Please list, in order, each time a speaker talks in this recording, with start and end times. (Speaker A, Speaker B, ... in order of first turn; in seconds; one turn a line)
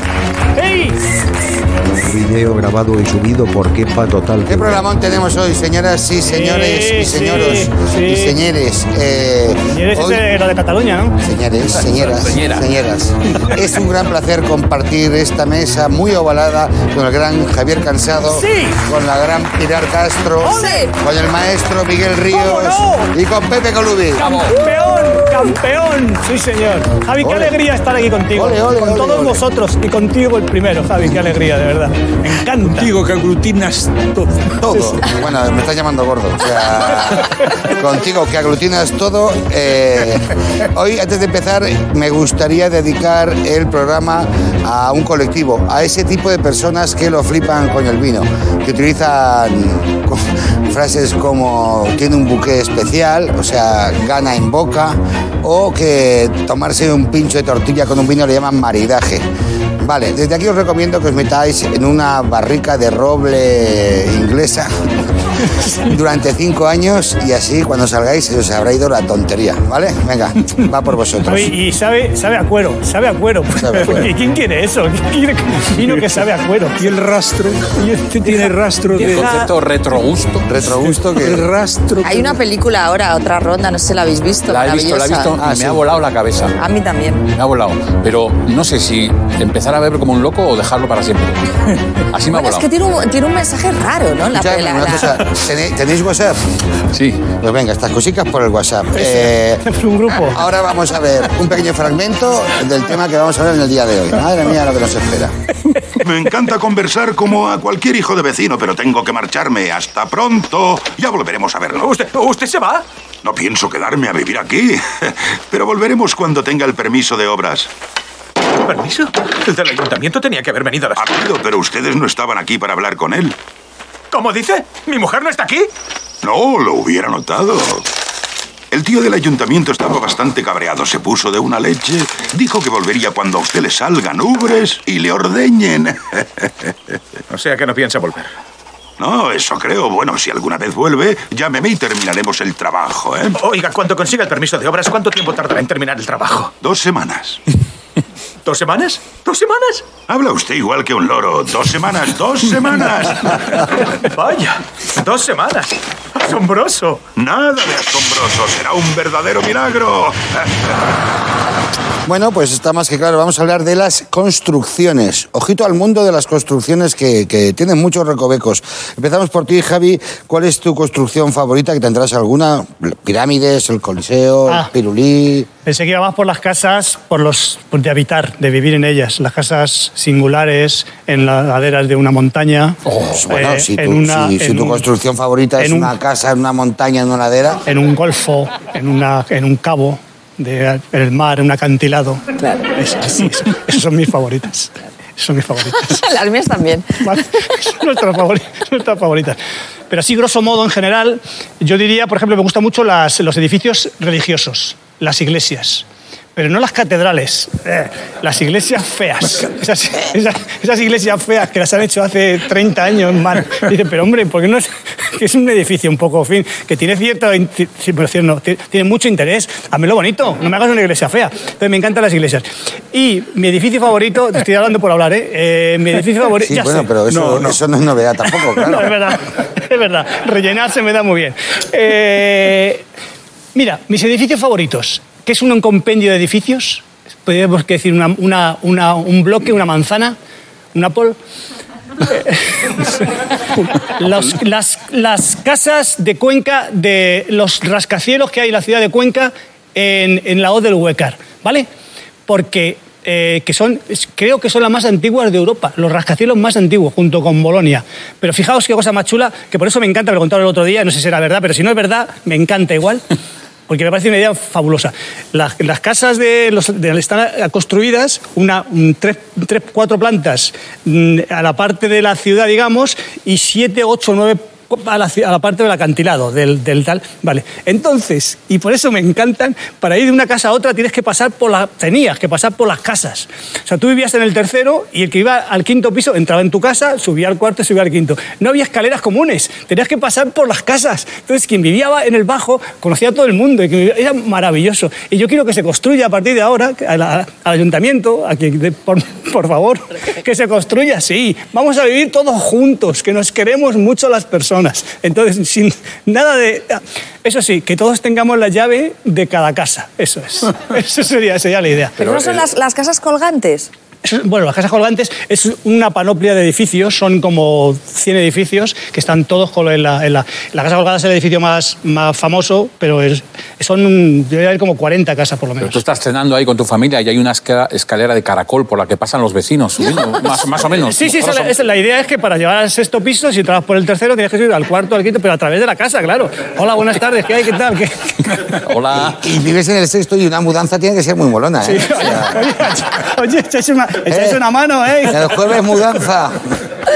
Speaker A: 0.6-1.0
Speaker B: 2.0-4.8
Speaker C: 4.5-10.2
Speaker A: 6.2-8.4
Speaker A: 9.7-11.2
Speaker C: 11.2-24.2
Speaker D: 11.8-12.7
Speaker A: 18.3-18.8
Speaker A: 20.4-20.9
Speaker A: 22.3-23.1
Speaker D: 24.2-24.6
Speaker A: 24.2-32.9
Speaker C: 27.2-27.6
Speaker C: 28.3-29.4
Speaker E: 32.6-35.1
Speaker C: 34.6-59.2
Speaker C: 59.8-64.7
Speaker C: 65.8-71.5
Speaker A: 71.2-76.8
Speaker C: 73.6-74.1
Speaker E: 75.8-76.0
Speaker E: 76.8-79.4
Speaker A: 78.2-79.5
Speaker D: 79.0-80.5
Speaker C: 80.5-81.5
Speaker E: 80.7-82.4
Speaker F: 82.0-85.3
Speaker D: 84.5-86.6
Speaker C: 85.4-85.8
Speaker F: 86.6-87.2
Speaker D: 87.3-91.5
Speaker D: 92.1-92.7
Speaker F: 92.3-95.2
Speaker C: 94.3-96.4
Speaker D: 96.9-97.3
Speaker C: 97.4-99.6
Speaker A: 99.0-100.4
Speaker C: 100.3-105.3
Speaker G: 106.0-111.9
Speaker H: 111.8-112.8
Speaker G: 113.2-117.7
Speaker H: 118.6-121.1
Speaker G: 121.0-123.4
Speaker H: 124.1-125.7
Speaker G: 126.2-127.9
Speaker G: 128.7-136.7
Speaker H: 137.3-138.3
Speaker G: 139.0-143.4
Speaker H: 143.4-146.5
Speaker G: 146.6-147.4
Speaker H: 148.4-149.9
Speaker G: 150.1-153.4
Speaker H: 154.0-157.1
Speaker G: 157.1-160.7
Speaker C: 162.1-175.5
Speaker A: 175.7-184.8
Speaker D: 182.8-183.2
Speaker C: 183.1-187.6
Speaker A: 185.6-185.9
Speaker A: 187.7-192.2
Speaker F: 192.4-192.7
Speaker A: 192.8-196.1
Speaker F: 195.9-197.1
Speaker A: 197.0-199.4
Speaker A: 199.9-205.8
Speaker A: 206.4-226.9
Speaker C: 226.4-228.9
Speaker E: 227.1-227.6
Speaker A: 228.6-232.8
Speaker A: 233.6-240.2
Speaker A: 240.7-241.2
Speaker A: 242.1-251.7
Speaker A: 252.3-263.0
Speaker A: 263.7-312.0
Speaker F: 312.0-313.7
Speaker D: 312.0-312.4
Speaker A: 314.0-325.8
Speaker D: 325.6-331.5
Speaker A: 330.9-338.4
Speaker D: 338.6-339.2
Speaker C: 339.1-342.5
Speaker A: 341.6-345.3
Speaker C: 344.1-344.4
Speaker C: 345.1-346.5